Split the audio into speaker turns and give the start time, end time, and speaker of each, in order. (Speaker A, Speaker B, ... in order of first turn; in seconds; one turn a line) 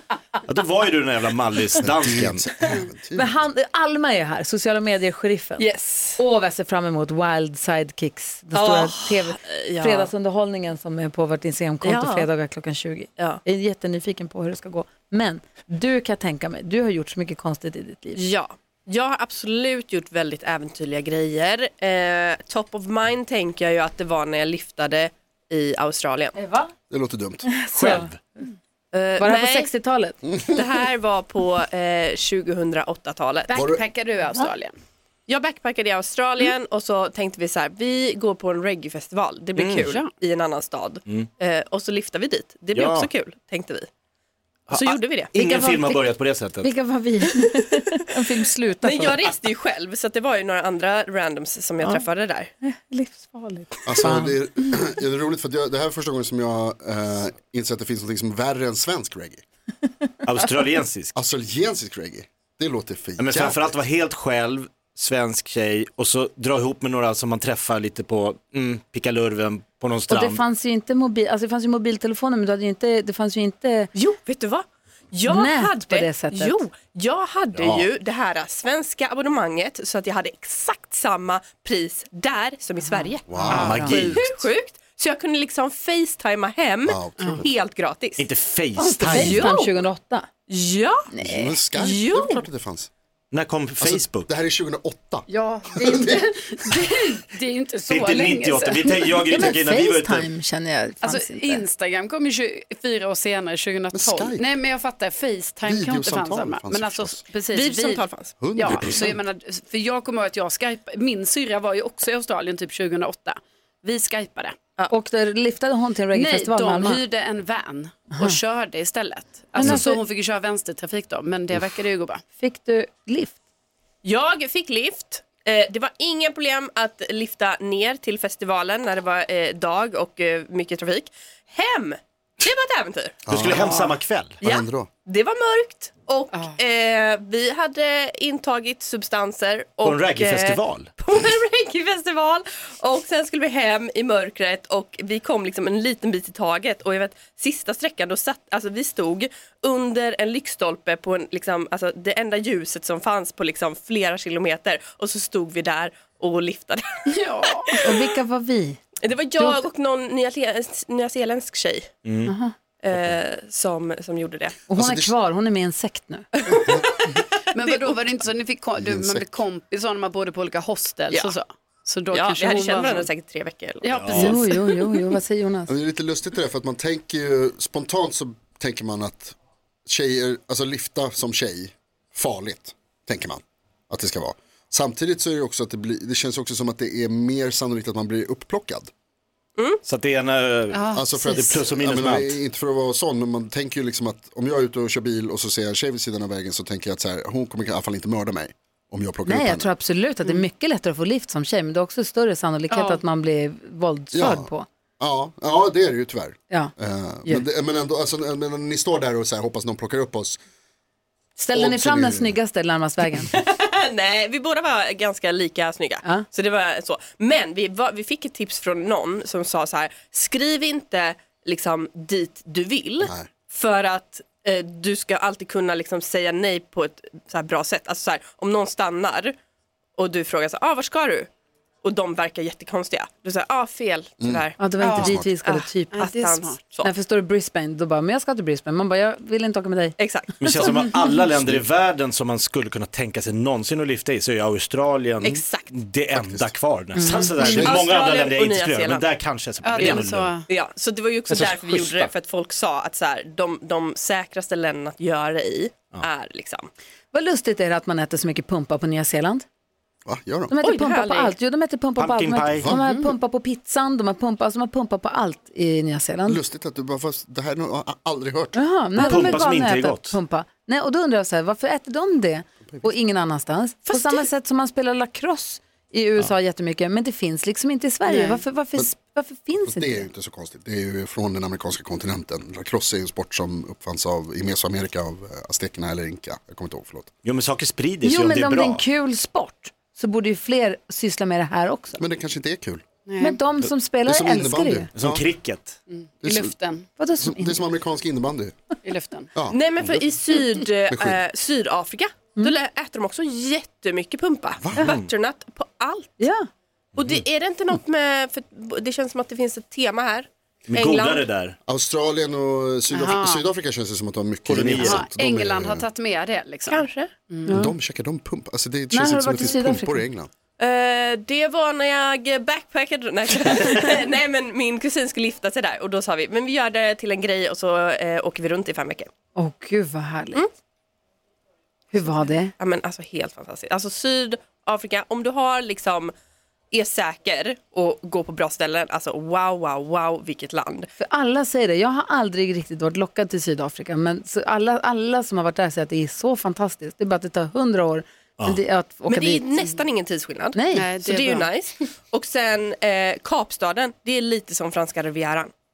Speaker A: 0.5-2.5
Speaker B: 1.8-3.4
Speaker C: 3.1-5.6
Speaker D: 5.6-6.0
Speaker C: 6.2-18.2
Speaker D: 8.6-10.1
Speaker D: 11.8-12.3
Speaker D: 18.1-26.4
Speaker C: 26.4-26.7
Speaker B: 26.9-27.5
Speaker C: 27.4-28.1
Speaker A: 27.7-28.2
Speaker D: 28.9-29.7
Speaker C: 29.2-30.2
Speaker D: 30.5-33.6
Speaker E: 33.5-34.8
Speaker B: 33.5-33.8
Speaker D: 35.3-43.9
Speaker A: 39.6-39.9
Speaker A: 42.7-43.1
Speaker A: 44.7-46.7
Speaker D: 44.7-45.4
Speaker C: 45.3-46.1
Speaker C: 46.6-49.2
Speaker D: 48.8-52.5
Speaker C: 52.6-54.4
Speaker B: 53.9-59.4
Speaker A: 60.2-61.1
Speaker B: 61.1-63.7
Speaker A: 63.2-70.4
Speaker C: 70.1-73.9
Speaker D: 74.0-88.3
Speaker C: 75.3-76.6
Speaker B: 83.3-84.3
Speaker C: 83.3-83.9
Speaker A: 83.6-84.3
Speaker B: 86.9-87.5
Speaker E: 87.2-87.5
Speaker A: 88.2-89.5
Speaker C: 88.8-90.3
Speaker D: 89.0-89.7
Speaker D: 90.5-91.1
Speaker C: 91.1-91.5
Speaker B: 91.2-92.9
Speaker D: 91.7-92.5
Speaker A: 93.3-94.3
Speaker B: 93.8-96.3
Speaker E: 95.3-99.5
Speaker A: 97.9-100.3
Speaker C: 99.3-101.6
Speaker E: 101.0-114.6
Speaker B: 103.9-104.5
Speaker B: 105.7-107.2
Speaker D: 107.5-108.4
Speaker B: 108.4-109.2
Speaker C: 114.9-117.0
Speaker E: 116.1-122.2
Speaker C: 119.5-120.0
Speaker C: 122.4-123.4
Speaker D: 124.0-133.5
Speaker B: 133.3-133.7
Speaker A: 133.3-134.4
Speaker D: 134.4-157.1
Speaker B: 134.4-134.9
Speaker A: 139.8-140.9
Speaker E: 157.1-157.7
Speaker C: 157.8-158.8
Speaker D: 159.0-161.9
Speaker C: 159.4-159.6
Speaker A: 162.1-162.3
Speaker C: 162.3-162.5
Speaker D: 162.8-164.6
Speaker C: 164.7-166.3
Speaker B: 164.7-165.1
Speaker D: 166.5-168.2
Speaker E: 167.1-173.1
Speaker B: 168.8-169.3
Speaker D: 172.1-174.7
Speaker E: 173.8-174.6
Speaker A: 173.9-174.3
Speaker C: 174.2-175.7
Speaker B: 175.7-179.3
Speaker B: 179.9-188.9
Speaker A: 189.8-192.4
Speaker E: 190.7-191.6
Speaker B: 190.9-199.7
Speaker C: 199.2-204.7
Speaker E: 202.7-203.0
Speaker B: 204.1-210.4
Speaker C: 211.4-213.3
Speaker B: 211.5-212.4
Speaker D: 213.3-229.3
Speaker B: 223.0-223.3
Speaker D: 230.0-231.3
Speaker D: 231.8-236.9
Speaker B: 234.2-235.3
Speaker C: 234.6-236.0
Speaker E: 234.8-235.2
Speaker E: 235.9-236.6
Speaker C: 236.8-240.0
Speaker D: 240.0-240.8
Speaker A: 240.4-250.3
Speaker D: 245.2-245.7
Speaker B: 246.1-246.5
Speaker C: 247.0-247.3
Speaker B: 247.4-247.8
Speaker E: 247.4-247.7
Speaker D: 247.6-249.1
Speaker E: 249.6-250.5
Speaker D: 249.8-256.7
Speaker A: 251.3-252.1
Speaker C: 257.1-259.5
Speaker B: 260.1-260.6
Speaker C: 260.5-266.4
Speaker D: 260.6-261.4
Speaker A: 262.0-262.8
Speaker E: 262.8-263.1
Speaker B: 266.3-268.6
Speaker C: 268.5-280.1
Speaker A: 269.0-270.2
Speaker D: 269.1-269.4
Speaker D: 273.9-274.2
Speaker E: 278.1-278.4
Speaker B: 279.6-287.1
Speaker A: 287.2-288.8
Speaker C: 288.0-292.0
Speaker B: 292.0-292.8
Speaker E: 293.1-293.4
Speaker C: 293.2-294.9
Speaker B: 294.1-295.2
Speaker A: 295.0-295.8
Speaker E: 295.9-296.9
Speaker B: 296.2-296.5
Speaker C: 297.0-297.7
Speaker B: 297.2-298.6
Speaker E: 298.8-299.3
Speaker B: 299.4-300.1
Speaker D: 299.5-306.2
Speaker B: 300.9-301.2
Speaker B: 304.6-304.9
Speaker A: 304.8-305.1
Speaker C: 306.2-306.5
Speaker D: 307.0-311.3
Speaker A: 310.7-311.6
Speaker B: 311.7-315.9
Speaker E: 312.9-313.5
Speaker A: 314.5-315.1
Speaker E: 314.6-317.6
Speaker D: 316.7-317.1
Speaker C: 317.5-317.8
Speaker B: 317.5-320.3
Speaker C: 318.9-320.1
Speaker D: 320.6-329.1
Speaker C: 329.4-330.4
Speaker C: 331.9-332.5
Speaker D: 332.6-336.1
Speaker D: 336.7-340.9
Speaker C: 341.0-349.5
Speaker D: 349.1-355.5
Speaker C: 350.5-350.9
Speaker E: 350.7-351.5